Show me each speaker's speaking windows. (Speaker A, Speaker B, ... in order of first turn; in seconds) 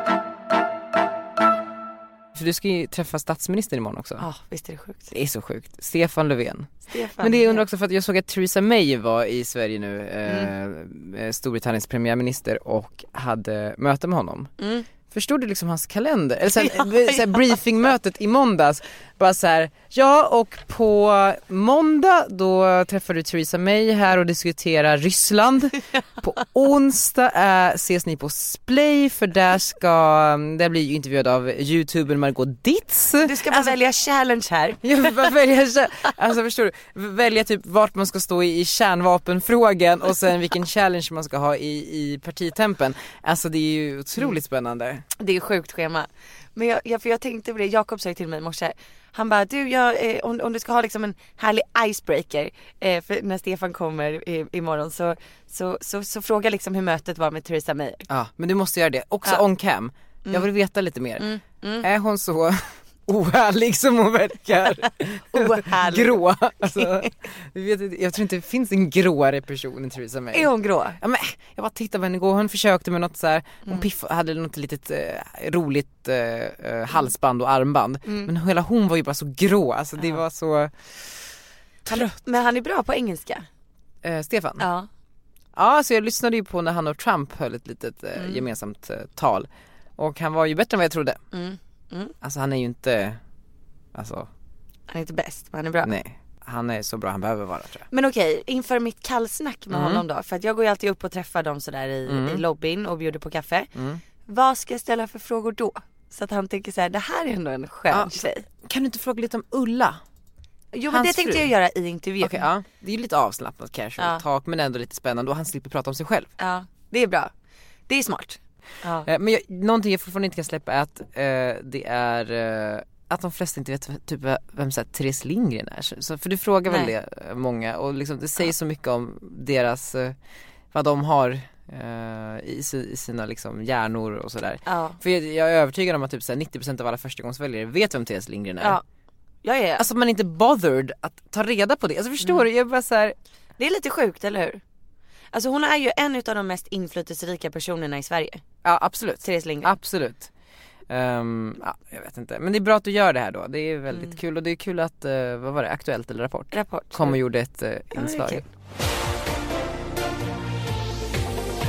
Speaker A: 2.3-4.2, 5.1-14.5, 15.1-33.7, 34.8-45.0, 58.1-61.3, 61.8-81.1, 84.0-84.7, 85.5-91.2, 92.2-93.2, 93.9-94.3, 95.8-97.9, 99.7-100.0, 102.1-102.4, 103.8-104.0, 107.9-110.0, 110.9-111.5, 112.2-116.3, 119.0-130.1, 130.7-138.8, 139.8-143.1, 148.6-150.3, 150.9-158.4
Speaker B: 4.2-5.1, 6.9-7.6, 10.2-10.5, 14.6-14.8, 16.6-17.6, 33.2-35.3, 45.2-58.0, 61.2-61.9, 65.3-67.1, 70.3-71.0, 78.0-78.3, 81.8-83.5, 84.6-84.9, 91.3-92.1, 94.9-95.9, 97.9-103.7, 104.3-108.4, 110.7-112.4, 114.0-114.2, 116.4-117.3, 117.9-119.1, 134.7-135.0, 139.4-139.8, 143.6-144.6, 145.3-148.4, 149.2-149.7, 156.5-157.2, 157.9-158.4